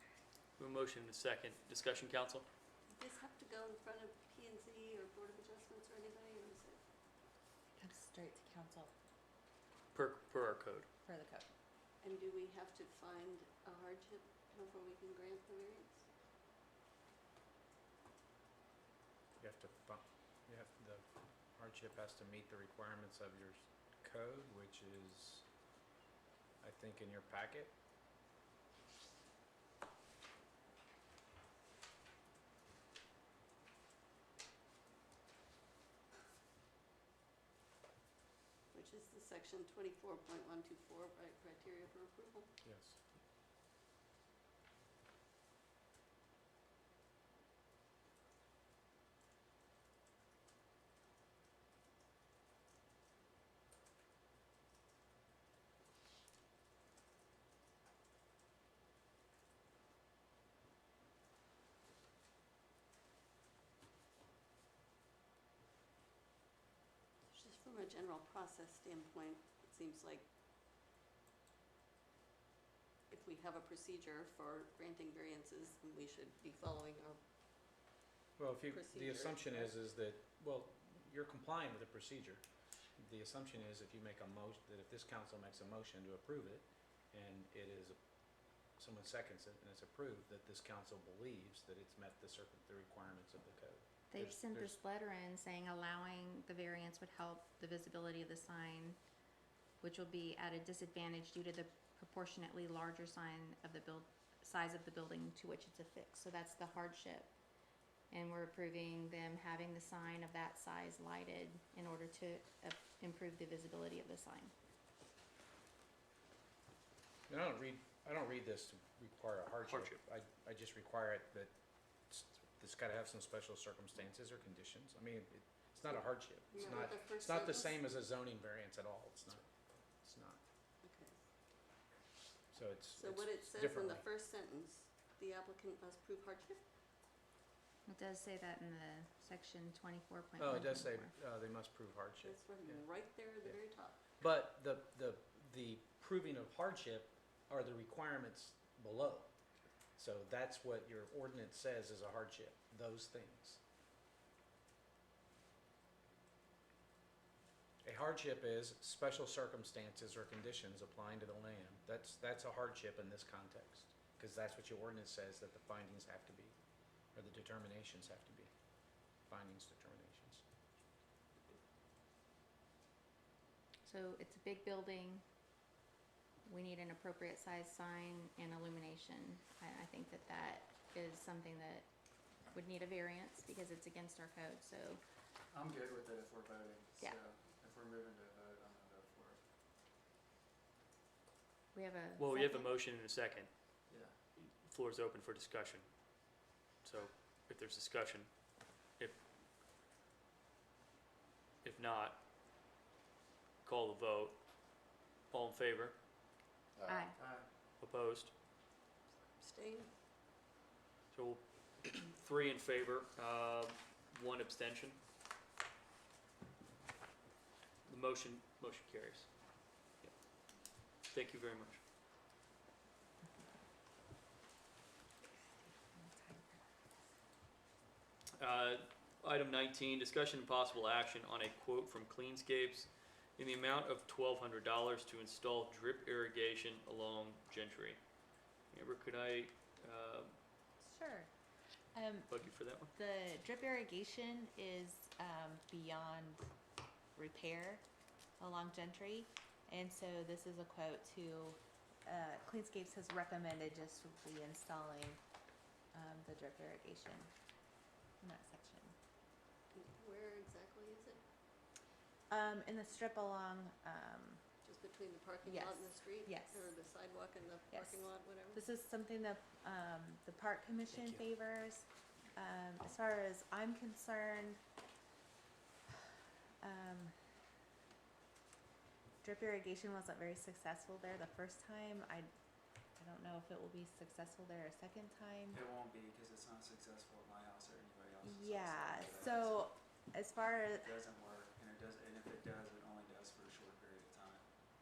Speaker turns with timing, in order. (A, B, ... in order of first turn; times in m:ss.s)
0:00.6-0:02.4 A
0:02.9-0:06.8 B
0:07.8-0:08.9 C
0:09.9-0:10.9 A
0:11.0-0:11.5 C
0:12.0-0:16.0 B
0:19.4-0:21.0 D
0:21.6-0:25.4 D
0:26.6-0:27.7 D
0:38.7-0:42.5 B
0:42.6-0:43.0 D
1:07.3-1:10.3 B
1:13.1-1:17.2 B
1:18.4-1:22.4 D
1:18.7-1:19.8 B
1:23.0-1:28.0 D
1:28.8-1:34.8 D
1:34.1-1:39.0 E
1:39.8-1:47.3 E
1:48.1-1:54.5 E
1:57.3-2:01.5 D
1:59.7-2:00.0 A
2:02.1-2:09.5 D
2:06.5-2:07.9 B
2:10.0-2:10.4 D
2:10.8-2:11.2 B
2:12.5-2:14.0 D
2:12.9-2:16.6 B
2:17.8-2:21.1 E
2:20.4-2:22.4 D
2:22.2-2:24.0 B
2:24.2-2:29.3 D
2:30.0-2:33.6 D
2:37.8-2:46.5 D
2:47.1-2:48.5 D
2:49.3-2:50.4 D
2:53.8-2:55.2 E
2:56.5-3:01.8 E
3:02.5-3:05.0 E
3:05.5-3:09.4 F
3:11.7-3:12.7 E
3:12.2-3:13.5 A
3:13.9-3:14.1 F
3:14.4-3:15.9 A
3:16.8-3:18.3 A
3:21.6-3:22.2 A
3:23.6-3:24.4 A
3:25.3-3:26.0 A
3:26.9-3:27.1 E
3:27.2-3:27.4 F
3:27.8-3:28.3 A
3:29.4-3:29.9 B
3:31.1-3:35.0 A
3:37.8-3:39.3 A
3:41.1-3:41.8 A
3:45.5-3:46.6 C
3:48.4-3:58.0 A
3:58.7-4:00.4 A
4:00.8-4:01.3 C
4:01.9-4:06.4 C
4:02.3-4:02.9 A
4:07.1-4:07.8 C
4:08.4-4:15.2 C
4:15.9-4:17.3 C
4:18.2-4:18.9 C
4:19.7-4:21.2 B
4:22.3-4:24.4 C
4:24.6-4:28.6 B
4:25.4-4:26.7 C
4:27.7-4:34.6 C
4:36.6-4:37.1 C
4:39.2-4:42.3 C
4:43.0-4:45.6 C
4:45.5-4:49.7 F
4:48.2-4:51.0 C
4:50.8-4:54.4 F